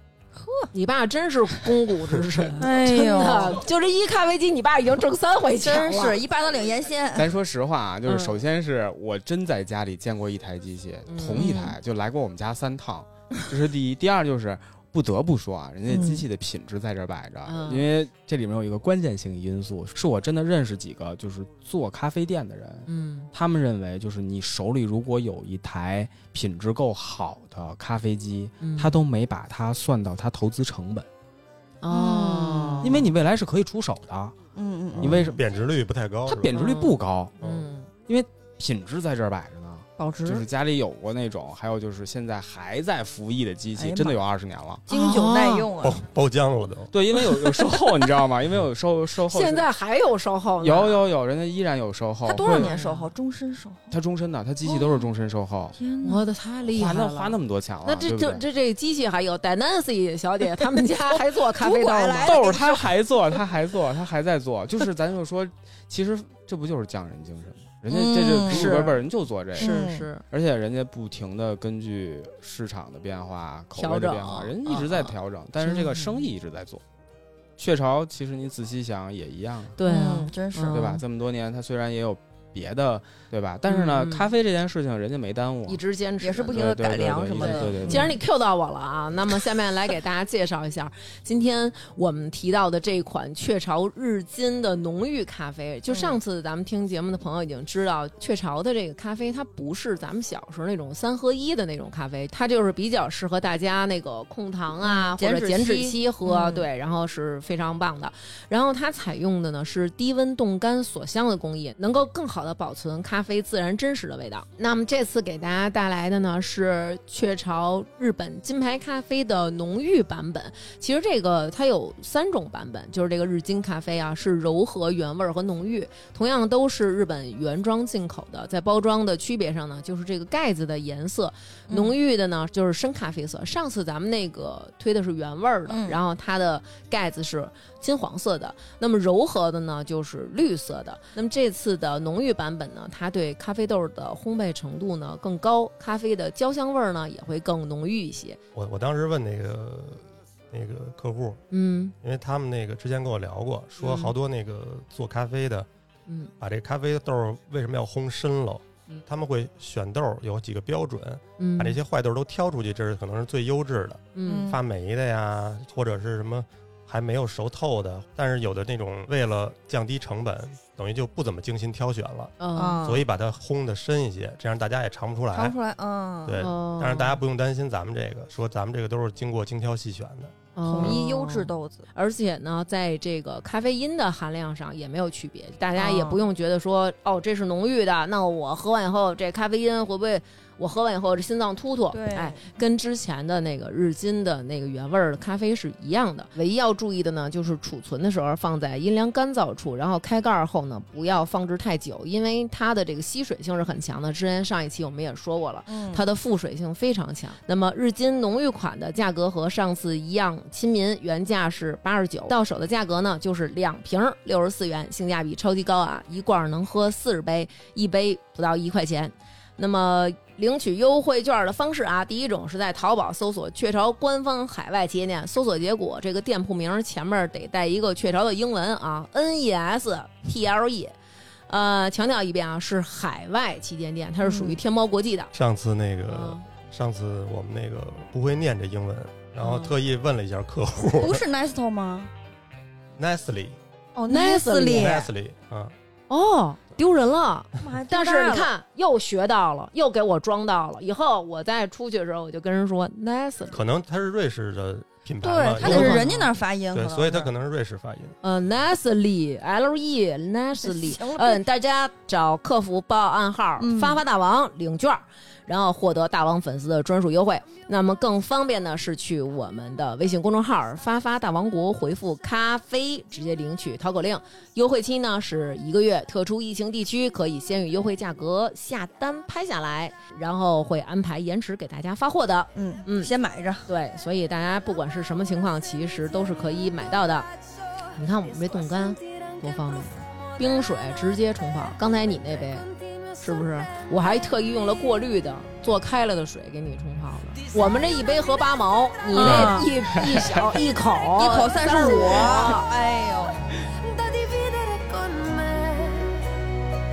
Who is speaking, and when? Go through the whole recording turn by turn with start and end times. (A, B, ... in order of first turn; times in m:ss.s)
0:00.4-0:00.7 A
0:00.7-0:06.2 B
0:02.6-0:03.6 A
0:05.6-0:07.3 A
0:07.2-0:31.1 C
0:08.1-0:08.3 B
0:11.1-0:11.7 B
0:15.9-0:16.2 A
0:17.5-0:17.9 B
0:22.9-0:23.3 B
0:28.6-0:29.0 B
0:31.8-0:33.1 B
0:31.9-0:33.0 A
0:32.8-0:34.4 C
0:34.6-0:35.2 A
0:34.9-0:36.5 D
0:35.0-0:35.4 C
0:36.3-0:37.3 C
0:36.5-0:37.9 B
0:38.1-0:44.8 C
0:40.0-0:40.5 A
0:43.8-0:44.2 A
0:44.9-0:46.0 A
0:44.9-0:45.7 B
0:45.8-0:46.9 D
0:46.9-0:49.7 C
0:49.3-0:51.0 B
0:50.6-0:52.7 C
0:52.3-0:53.9 A
0:52.4-0:53.1 B
0:53.9-0:55.8 C
0:54.6-0:55.1 A
0:55.8-0:56.2 A
0:56.0-1:02.4 B
0:56.7-0:58.4 C
1:01.2-1:02.9 A
1:02.2-1:09.8 C
1:07.9-1:08.8 A
1:08.5-1:09.0 B
1:09.6-1:10.2 B
1:09.6-1:10.1 A
1:10.3-1:16.8 C
1:13.8-1:16.2 B
1:17.6-1:19.8 C
1:19.8-1:21.0 B
1:19.8-1:20.9 A
1:20.7-1:25.8 C
1:23.7-1:24.3 B
1:25.7-2:28.4 B
1:26.2-1:28.2 A
1:26.5-1:28.2 C
1:35.9-1:36.2 A
1:44.8-1:46.7 A
2:11.7-2:12.0 A
2:15.7-2:16.0 A
2:28.6-2:31.4 D
2:31.5-2:32.0 B
2:32.0-2:35.7 D
2:33.8-2:34.1 B
2:36.4-2:55.6 D
2:41.4-2:41.8 B
2:44.2-2:44.5 B
2:44.3-2:44.6 A
2:52.4-2:52.9 B
2:52.6-2:53.1 A
2:55.3-2:56.5 A
2:56.2-3:01.0 D
2:56.4-2:57.2 B
3:00.6-3:51.0 B
3:00.6-3:01.9 A
3:05.8-3:06.2 A
3:11.9-3:12.5 A
3:25.7-3:26.0 A
3:51.5-3:55.3 B
3:54.2-3:54.6 A
3:55.3-4:01.2 D
3:56.1-3:56.4 B
3:59.4-3:59.7 B
4:01.0-4:02.1 A
4:03.0-4:03.6 D
4:04.0-4:05.1 A
4:04.1-4:05.0 B
4:04.8-4:05.7 D
4:06.1-4:13.6 B
4:07.6-4:08.5 A
4:13.5-4:16.0 D
4:15.2-4:17.3 A
4:15.6-4:16.3 B
4:16.7-4:18.2 D
4:18.2-4:43.1 B
4:20.6-4:21.4 A
4:23.6-4:24.0 A
4:42.6-4:43.7 A
4:43.7-4:47.3 B
4:48.0-4:52.7 B
4:53.2-5:02.7 B
4:57.4-4:58.2 E
4:59.1-4:59.7 A
4:59.2-5:00.6 C
5:01.2-5:03.4 A
5:01.8-5:02.6 E
5:03.7-5:06.3 E